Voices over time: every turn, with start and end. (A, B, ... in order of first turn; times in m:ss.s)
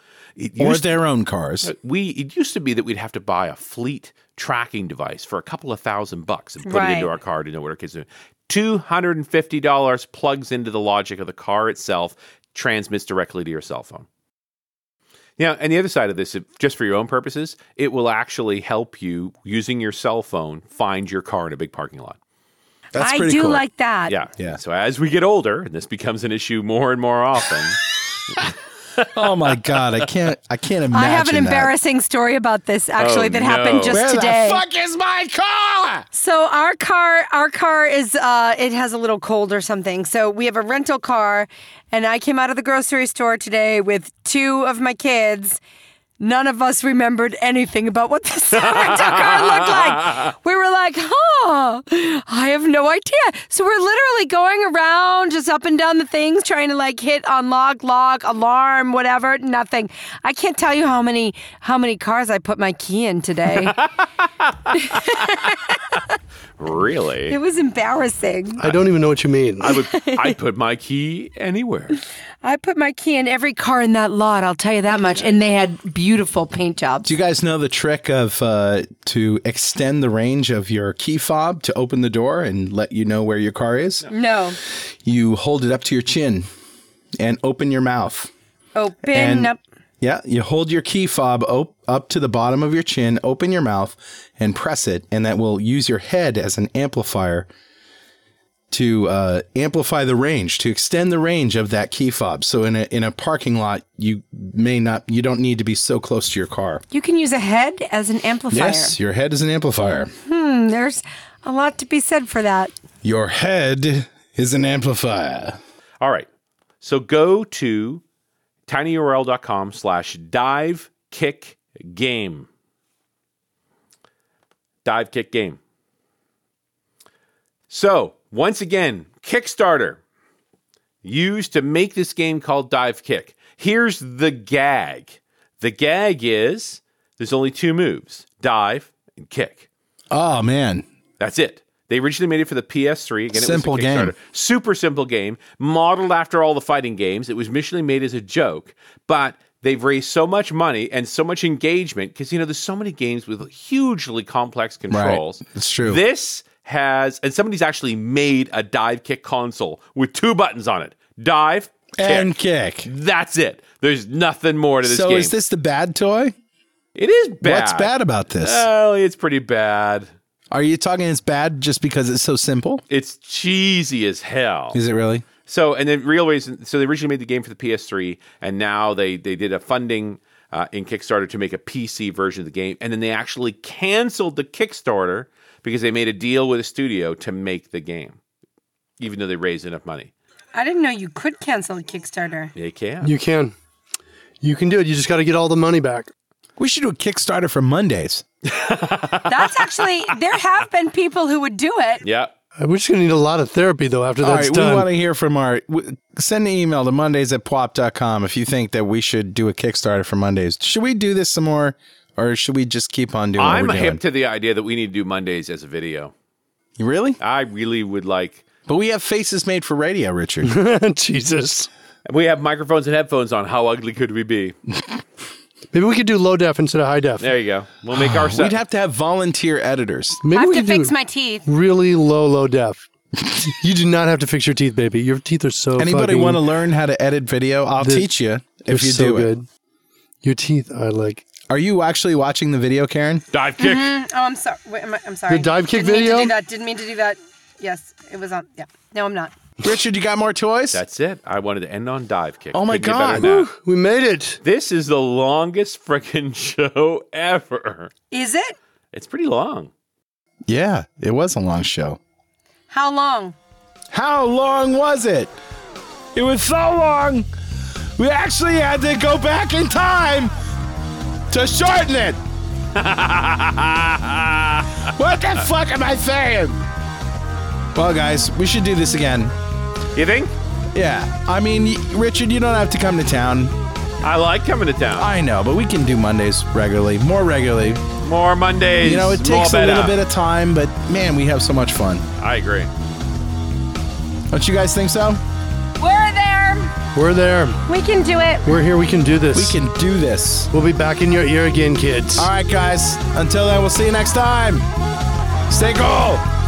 0:00.4-0:00.9 A
0:00.6-0:01.7 B
0:01.6-0:14.0 A
0:06.6-0:07.1 C
0:15.4-0:22.2 A
0:22.9-0:23.6 B
0:23.0-0:24.1 C
0:24.1-0:29.4 A
0:29.1-0:31.7 B
0:30.9-0:34.6 C
0:33.0-0:34.0 A
0:33.9-0:34.5 B
0:34.0-0:36.0 D
0:36.1-0:45.6 C
0:46.2-1:03.8 C
0:48.6-0:50.2 A
1:04.4-1:04.8 A
1:04.8-1:06.0 C
1:06.6-1:07.4 A
1:07.3-1:08.7 C
1:08.6-1:09.7 E
1:09.6-1:10.3 C
1:09.6-1:12.0 A
1:12.4-1:17.1 C
1:17.0-1:24.0 B
1:24.1-1:24.6 C
1:25.0-1:26.5 B
1:27.2-1:28.3 B
1:28.7-1:29.6 C
1:29.1-1:37.5 B
1:38.7-1:46.8 B
1:46.9-1:49.0 C
1:48.5-1:50.1 B
1:50.2-1:52.7 C
1:53.0-1:55.6 B
1:56.0-1:56.3 A
1:56.8-1:58.0 A
1:58.7-2:02.5 A
2:04.8-2:05.6 A
2:07.7-2:10.0 A
2:11.0-2:19.7 A
2:20.1-2:20.8 B
2:21.2-2:42.3 A
2:23.3-2:24.1 B
2:34.9-2:36.0 B
2:42.0-2:42.9 B
2:42.8-2:45.3 A
2:44.8-2:46.3 B
2:46.9-2:50.1 A
2:47.4-2:48.6 B
2:50.5-2:52.8 B
2:52.9-2:54.8 A
2:54.7-2:55.2 B
2:55.5-3:08.2 A
3:09.0-3:10.1 A
3:10.5-3:12.5 C
3:12.5-3:13.1 A
3:13.0-3:13.5 E
3:14.4-3:16.1 E
3:16.6-3:18.2 B
3:18.4-3:19.9 A
3:19.3-3:22.0 C
3:22.0-3:22.3 A
3:22.6-3:24.9 E
3:24.2-3:34.0 B
3:33.4-3:36.1 A
3:36.8-3:37.2 B
3:37.2-3:38.5 A
3:38.7-3:40.5 B
3:40.4-3:41.7 E
3:42.1-3:44.5 A
3:45.7-3:47.3 E
3:47.2-3:48.6 A
3:47.9-3:50.2 B
3:50.2-3:50.9 E
3:50.3-3:51.4 C
3:51.4-3:52.8 E
3:53.4-3:56.4 E
3:55.8-3:59.3 B
3:57.8-3:58.1 E
3:58.7-3:59.4 E
4:00.2-4:01.2 E
4:01.5-4:03.2 B
4:03.3-4:03.9 A
4:03.6-4:09.3 C
4:05.3-4:06.3 E
4:09.6-4:10.8 B
4:10.7-4:13.5 A
4:12.5-4:13.3 B
4:13.2-4:14.4 E
4:14.4-4:17.9 A
4:18.1-4:18.6 C
4:18.9-4:19.7 A
4:20.5-4:22.0 B
4:22.7-4:23.4 C
4:23.9-4:25.3 B
4:26.1-4:27.2 B
4:28.0-4:30.3 B
4:31.3-4:32.2 B
4:31.3-4:31.8 D
4:32.7-4:34.8 A
4:35.0-4:35.5 B
4:35.0-4:36.6 D
4:37.7-4:39.3 B
4:39.9-4:40.3 A
4:40.7-4:43.5 B
4:44.0-4:45.1 A
4:45.0-4:47.8 B
4:48.0-4:49.9 A
4:48.8-4:52.0 B
4:52.2-4:52.7 A
4:54.3-4:55.2 B
4:55.8-4:56.7 C
4:56.9-4:57.6 E
4:57.6-4:58.6 C
4:58.4-4:59.6 E
4:59.3-5:00.5 B
5:00.5-5:02.3 E
5:02.2-5:04.6 B
5:05.5-5:06.2 B